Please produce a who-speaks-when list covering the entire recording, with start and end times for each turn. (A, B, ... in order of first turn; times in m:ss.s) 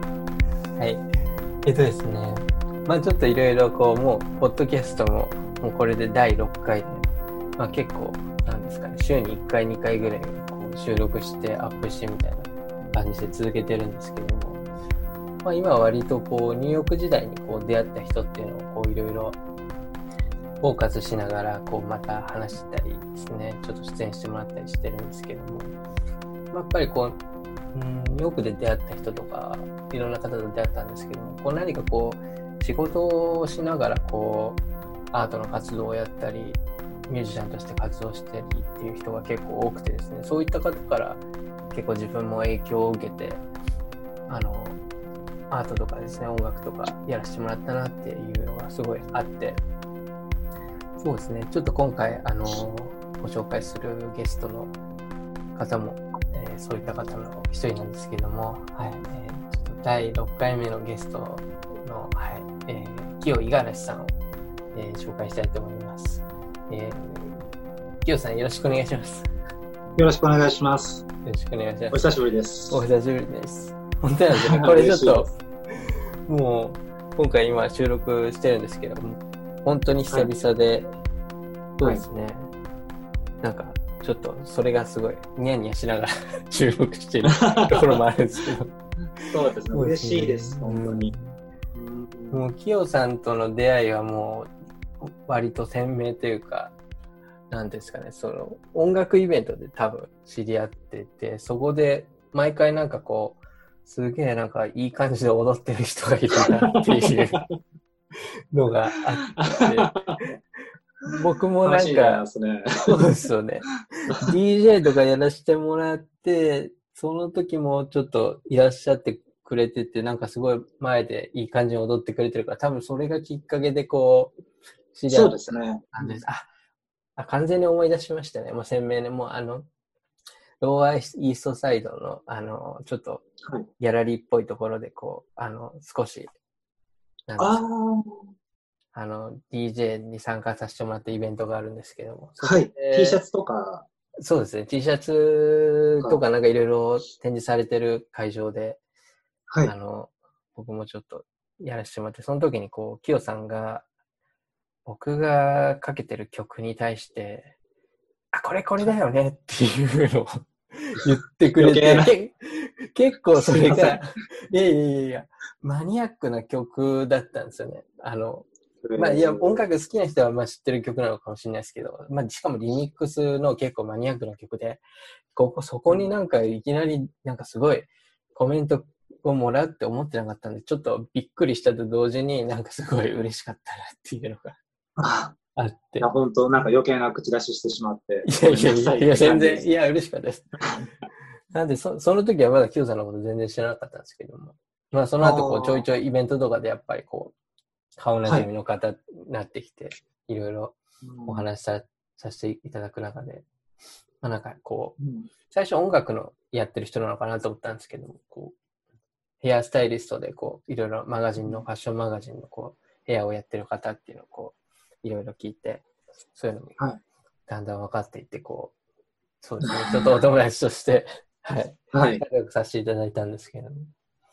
0:00.8-0:01.0 A
0:01.6-0:07.1 A
0:07.6-0:14.6 A
0:15.4-0:19.4 A
0:20.6-0:25.8 A
0:26.5-0:27.2 A
0:27.7-0:34.6 A
0:35.1-0:43.4 A
0:44.3-0:44.8 A
0:45.5-0:49.6 A
0:51.0-0:54.7 A
0:55.6-1:04.2 A
1:04.7-1:07.5 A
1:08.0-1:09.3 A
1:10.0-1:11.0 B
1:11.2-1:12.0 A
1:11.9-1:12.8 B
1:12.7-1:20.9 A
1:14.3-1:15.2 B
1:21.8-1:22.5 A
1:23.4-1:31.4 A
1:27.3-1:28.0 B
1:29.3-1:31.1 B
1:31.7-1:32.4 B
1:32.3-1:36.7 A
1:37.5-1:47.4 A
1:46.7-1:47.4 B
1:48.5-1:50.3 A
1:49.4-1:50.2 B
1:51.0-1:52.2 A
1:51.6-1:53.0 B
1:52.9-2:04.4 A
2:04.9-2:06.5 A
2:05.1-2:06.2 B
2:07.2-2:09.7 A
2:10.6-2:13.2 A
2:13.8-2:16.3 A
2:17.3-2:17.6 A
2:17.4-2:18.3 B
2:18.9-2:23.2 A
2:22.4-2:23.9 B
2:24.2-2:28.8 A
2:29.5-2:29.7 B
2:29.6-2:33.9 A
2:34.9-2:37.5 A
2:38.3-2:54.8 A
2:41.6-2:42.1 B
2:43.4-2:44.1 B
2:48.8-2:49.6 B
2:55.3-3:04.6 A
3:05.0-3:05.4 B
3:05.6-3:06.1 A
3:06.0-3:09.7 B
3:08.2-3:10.6 A
3:11.5-3:17.3 A
3:15.2-3:15.9 B
3:18.0-3:23.5 A
3:21.0-3:21.4 B
3:24.2-3:28.6 A
3:25.0-3:25.3 B
3:29.4-3:36.8 A
3:37.5-3:38.8 A
3:39.4-3:43.9 A
3:39.7-3:40.1 B
3:41.9-3:42.2 B